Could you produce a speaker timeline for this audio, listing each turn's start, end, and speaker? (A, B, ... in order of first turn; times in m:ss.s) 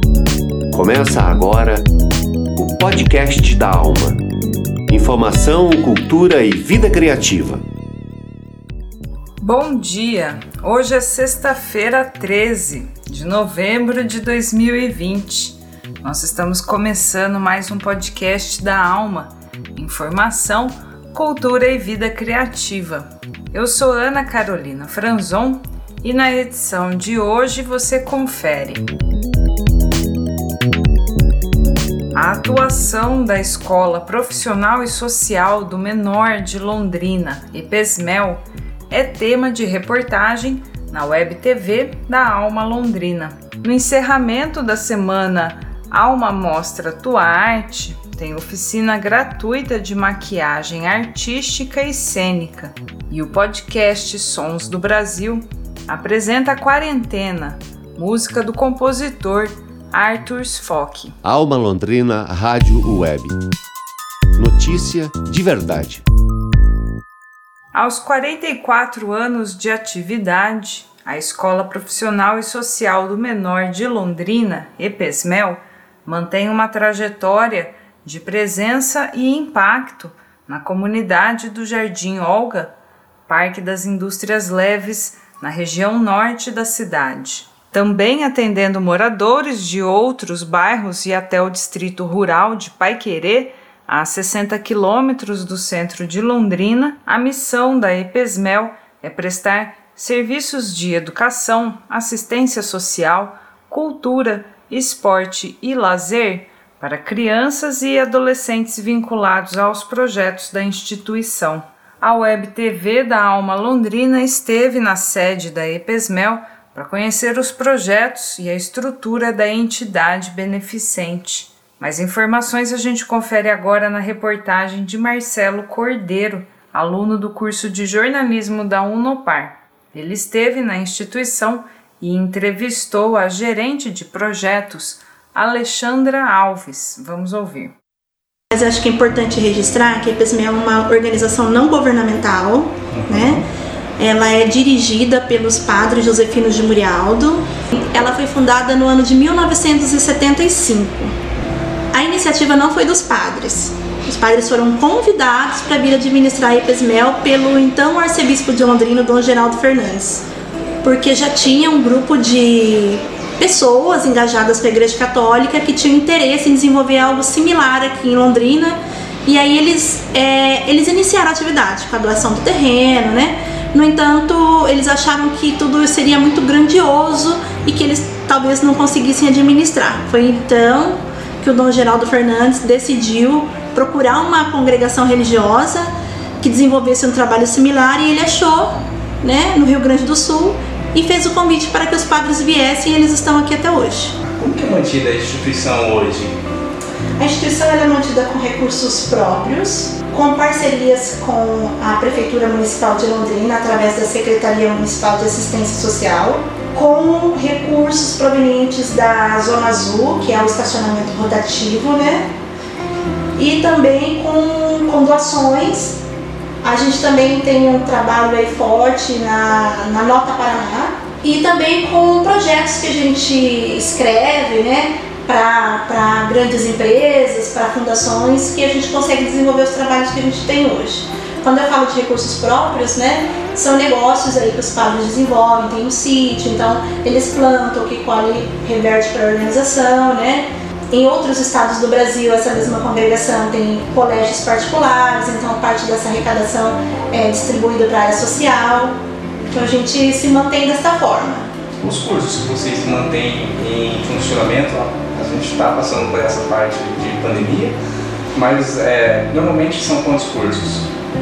0:00.7-0:01.9 A
0:02.6-0:04.2 A
0:04.9-0:07.6 A
0:09.4-0:28.9 B
0:32.1-1:01.2 B
1:01.2-1:03.4 A
1:04.4-1:06.0 A
1:07.7-1:22.7 B
1:23.3-2:17.7 B
2:18.5-2:23.4 C
2:23.0-2:23.3 D
2:24.0-2:31.1 C
2:31.9-2:40.2 C
2:40.8-3:14.1 C
3:14.2-3:16.4 D
3:17.2-3:32.3 C
3:33.4-3:36.0 C
3:36.6-4:09.0 C
4:09.5-4:11.5 C
4:11.8-4:17.8 D
4:18.3-4:20.9 D